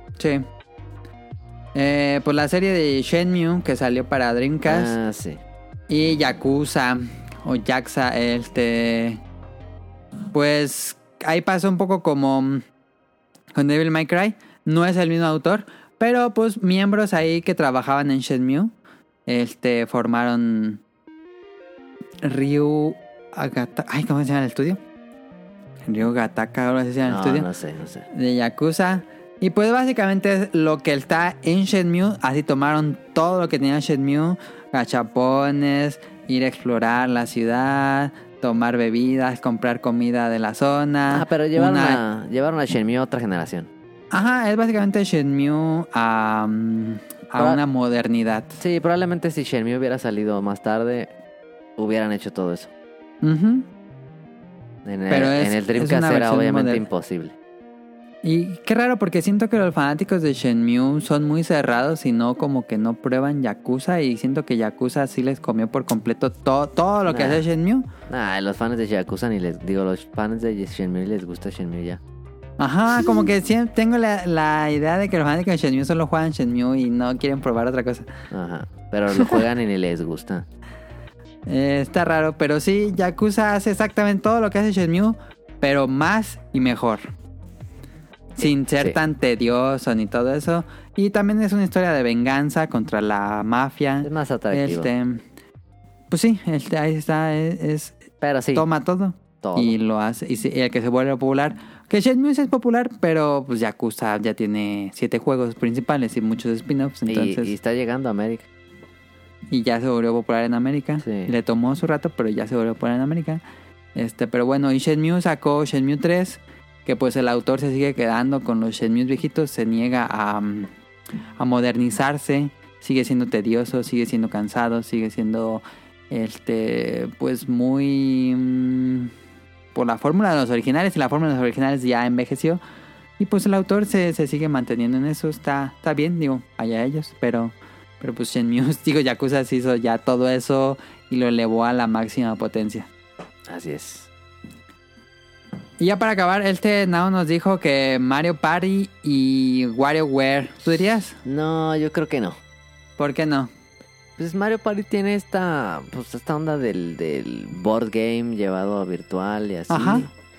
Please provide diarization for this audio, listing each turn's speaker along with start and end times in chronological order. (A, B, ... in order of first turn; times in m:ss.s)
0:00.2-0:00.4 A
0:01.8-0:04.9 A
0:04.6-0:05.4 B
0:05.9-0:09.2 A
0:10.3-0:12.6 A
0:13.6-0:18.7 A
0:19.3-0:20.8 A
0:22.2-0:24.8 A
0:25.9-0:27.5 A
0:27.1-0:28.1 B
0:28.1-0:42.0 A
0:41.1-0:43.7 B
0:44.1-0:48.6 A
0:47.4-0:47.6 B
0:48.6-0:51.1 B
0:51.8-0:52.7 B
0:53.2-0:53.7 A
0:54.8-0:57.4 B
0:55.1-0:56.8 A
0:58.2-1:07.9 A
1:07.1-1:07.4 B
1:08.1-1:12.0 B
1:12.6-1:18.1 A
1:18.3-1:20.5 B
1:21.5-1:27.0 A
1:28.4-1:35.2 A
1:28.4-1:29.0 B
1:34.0-1:34.9 B
1:36.1-1:38.0 A
1:38.2-1:38.7 B
1:38.5-1:47.5 A
1:39.4-1:39.8 B
1:47.1-1:48.5 B
1:49.5-1:53.4 A
1:51.0-1:51.4 B
1:54.0-2:00.7 A
2:01.4-2:09.1 A
2:09.8-2:12.6 A
2:13.2-2:22.9 A
2:23.5-2:24.1 B
2:25.8-2:31.2 A
2:31.2-2:32.4 B
2:33.0-2:33.5 A
2:34.2-2:40.1 B
2:39.7-2:40.1 A